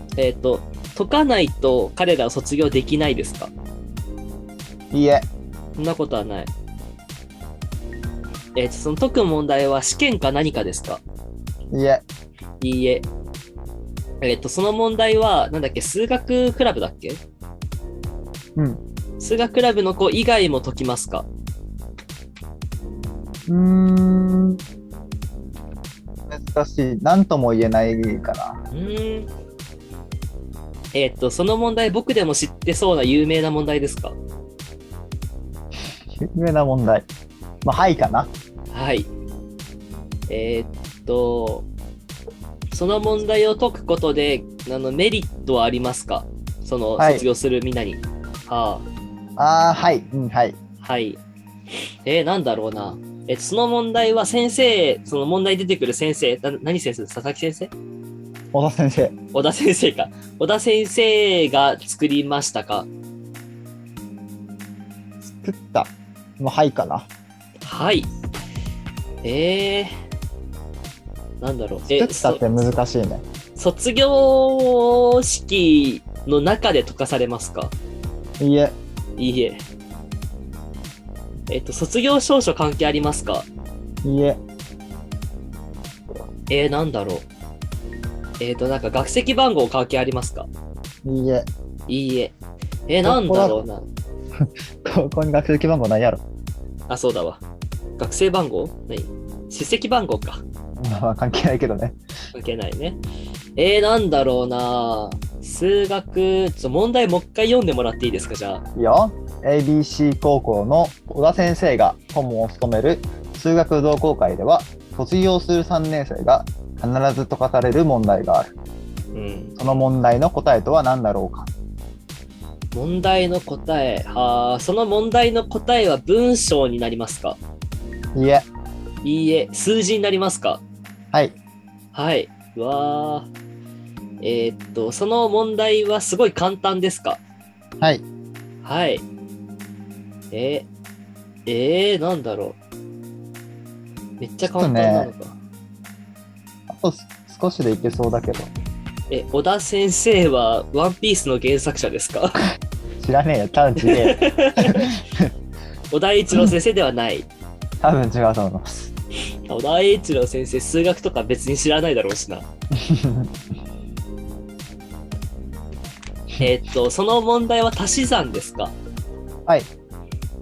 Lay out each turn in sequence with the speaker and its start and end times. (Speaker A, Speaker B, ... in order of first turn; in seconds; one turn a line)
Speaker A: 0.2-3.5
Speaker B: 4.9-5.3
Speaker A: 5.8-6.5
Speaker A: 8.6-11.0
Speaker B: 11.7-12.0
Speaker A: 12.6-13.1
Speaker A: 14.2-17.2
Speaker B: 18.6-18.8
Speaker A: 19.2-21.3
Speaker B: 23.5-24.6
Speaker B: 26.3-28.6
Speaker A: 28.7-29.3
Speaker A: 30.9-34.2
Speaker B: 36.1-37.1
Speaker B: 37.6-38.3
Speaker A: 38.7-39.1
Speaker A: 40.3-41.7
Speaker A: 42.7-48.9
Speaker B: 47.0-47.2
Speaker B: 49.4-50.6
Speaker A: 50.8-51.2
Speaker A: 52.0-57.7
Speaker B: 58.5-59.1
Speaker A: 59.3-62.9
Speaker B: 65.2-67.1
Speaker A: 67.6-68.1
Speaker A: 69.2-69.9
Speaker A: 71.4-72.7
Speaker B: 71.9-73.2
Speaker A: 73.6-77.7
Speaker B: 78.4-78.8
Speaker A: 79.2-79.6
Speaker A: 81.5-83.5
Speaker B: 84.0-84.4
Speaker A: 86.5-87.3
Speaker A: 88.4-90.5
Speaker B: 91.0-91.5
Speaker A: 91.9-92.3
Speaker A: 92.9-93.8
Speaker B: 93.0-93.6
Speaker B: 94.4-96.2
Speaker A: 96.9-97.4
Speaker A: 98.0-100.4
Speaker B: 100.8-102.0
Speaker A: 102.3-103.0
Speaker A: 103.6-108.6
Speaker B: 108.8-118.5
Speaker A: 119.1-119.6
Speaker B: 119.6-121.5
Speaker A: 122.7-127.4
Speaker B: 128.2-128.5
Speaker A: 129.0-130.6
Speaker A: 131.9-133.3
Speaker A: 134.2-137.2
Speaker A: 138.6-139.0
Speaker A: 140.3-140.7
Speaker A: 141.5-142.6
Speaker A: 144.2-145.4
Speaker B: 144.4-145.1
Speaker B: 146.7-148.5
Speaker A: 149.1-152.4
Speaker B: 153.0-155.3
Speaker A: 153.8-154.9
Speaker A: 155.9-157.3
Speaker B: 157.8-158.9
Speaker A: 159.5-162.5
Speaker B: 162.7-163.3
Speaker A: 166.4-168.7